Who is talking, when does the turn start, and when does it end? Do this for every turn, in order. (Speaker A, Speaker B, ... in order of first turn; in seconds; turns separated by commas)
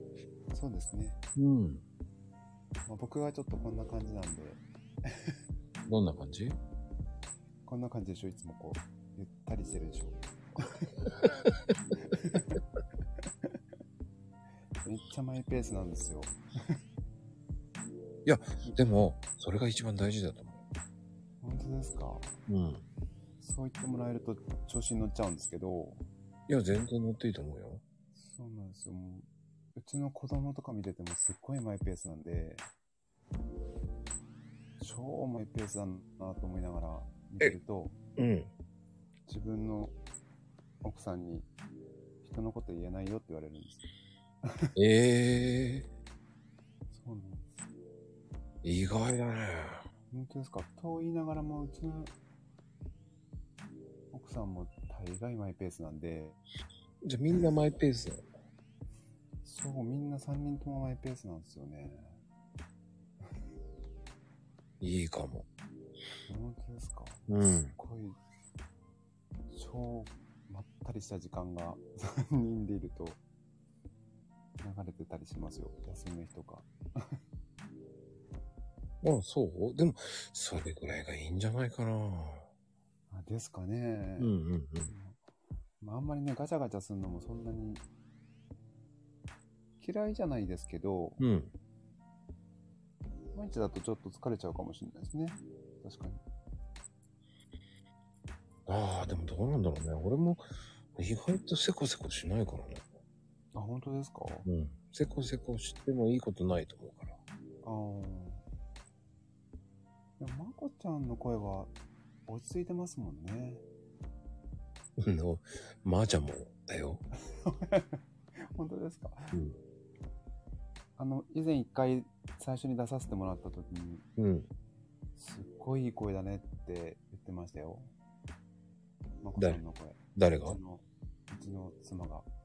Speaker A: 0.5-1.2, Speaker B: 1.4-1.8, Speaker A: 2.9-5.4, Speaker B: 5.8-6.6, Speaker A: 7.6-10.2, Speaker A: 12.2-12.5, Speaker A: 14.8-16.8, Speaker B: 18.2-20.6, Speaker A: 21.4-22.3, Speaker B: 22.5-22.8, Speaker A: 23.4-26.0, Speaker B: 26.5-27.8, Speaker A: 28.1-32.6, Speaker A: 34.8-38.0, Speaker B: 38.2-38.5, Speaker A: 39.3-39.9, Speaker A: 40.8-41.5, Speaker A: 42.2-43.9, Speaker B: 44.7-45.9, Speaker A: 46.9-47.5, Speaker B: 48.6-49.8, Speaker A: 50.1-52.1, Speaker A: 54.1-56.4, Speaker B: 57.0-58.2, Speaker A: 59.4-62.2, Speaker B: 64.8-65.5, Speaker A: 66.3-68.2, Speaker B: 67.3-67.7, Speaker A: 69.5-73.2, Speaker A: 74.6-77.2, Speaker B: 79.0-82.5, Speaker A: 83.1-84.3, Speaker B: 84.2-84.9, Speaker A: 84.9-85.2, Speaker A: 85.8-87.8, Speaker A: 89.8-91.2, Speaker B: 91.2-91.5, Speaker A: 93.3-96.2, Speaker B: 98.7-100.4, Speaker B: 100.9-102.8, Speaker A: 103.5-104.5, Speaker B: 104.4-107.1, Speaker A: 107.6-108.4, Speaker A: 110.2-111.7, Speaker A: 112.3-113.6, Speaker B: 115.0-117.0, Speaker A: 117.3-118.0, Speaker A: 118.5-119.3, Speaker B: 119.3-119.6, Speaker A: 121.0-124.0, Speaker B: 124.2-124.5, Speaker A: 125.2-127.9, Speaker A: 129.2-132.3, Speaker B: 130.1-130.6